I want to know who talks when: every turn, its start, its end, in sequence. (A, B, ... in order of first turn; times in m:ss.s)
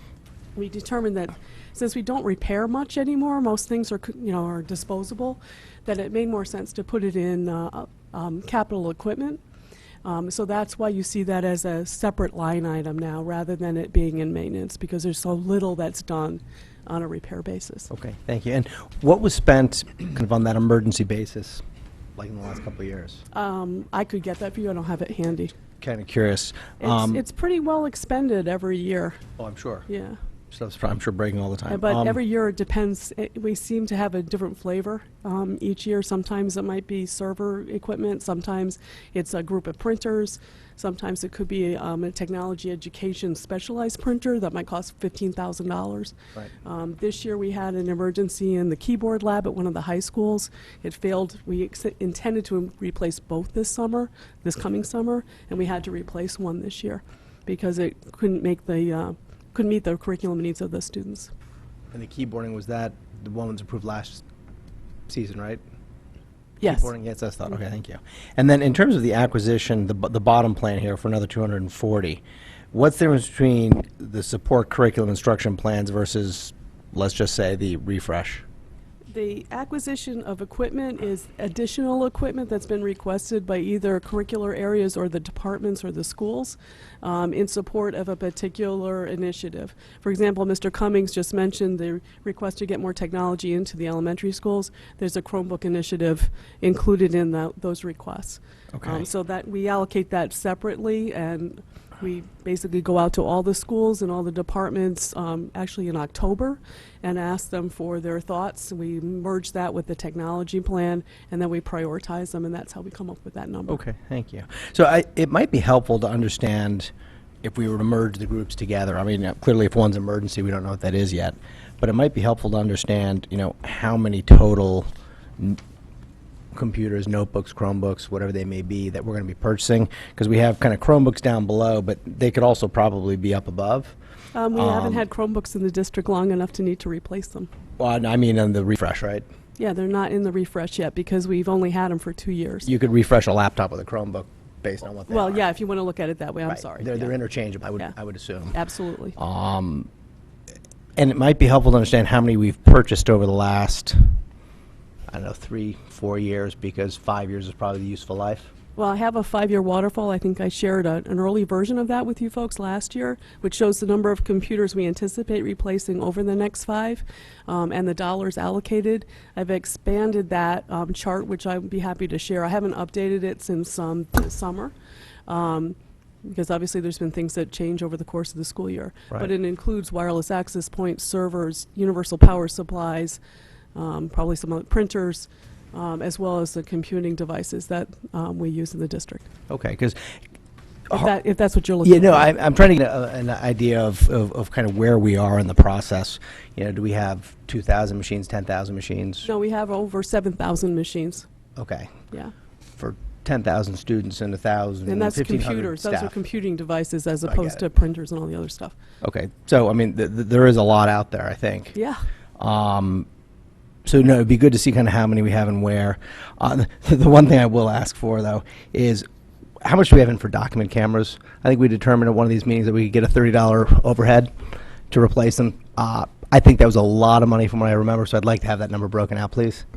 0:00.5-0:09.4 A
0:10.0-0:17.9 A
0:17.9-0:21.6 B
0:22.2-0:23.2 B
0:23.3-0:25.5 A
0:25.8-0:27.2 B
0:26.8-0:29.2 A
0:29.4-0:29.9 B
0:29.9-0:30.2 A
0:30.5-0:32.2 B
0:31.7-1:01.3 A
1:01.9-1:04.2 B
1:05.1-1:05.6 B
1:06.6-1:06.9 A
1:06.6-1:12.2 B
1:12.7-1:18.4 B
1:19.1-1:53.8 A
1:38.7-1:39.0 B
1:53.7-1:56.9 B
1:57.4-2:04.9 B
2:06.5-2:14.0 B
2:14.3-2:17.5 A
2:14.5-2:15.0 B
2:17.8-2:19.2 B
2:19.6-2:22.7 A
2:22.6-2:25.4 B
2:25.1-2:27.2 A
2:26.5-2:28.6 B
2:28.5-2:29.2 A
2:29.2-2:29.9 B
2:31.0-2:34.2 B
2:35.1-2:38.5 B
2:38.8-2:54.7 A
2:55.3-3:03.2 A
3:03.7-3:09.3 A
3:09.5-3:10.0 B
3:10.9-3:12.3 A
3:11.8-3:19.3 B
3:19.2-3:21.2 A
3:21.6-3:21.9 B
3:22.8-3:26.1 B
3:24.8-3:28.8 A
3:27.3-3:27.6 B
3:29.0-3:31.7 B
3:31.7-3:32.0 A
3:32.4-3:33.0 B
3:33.8-3:39.0 B
3:39.6-3:44.3 B
3:44.9-3:49.6 B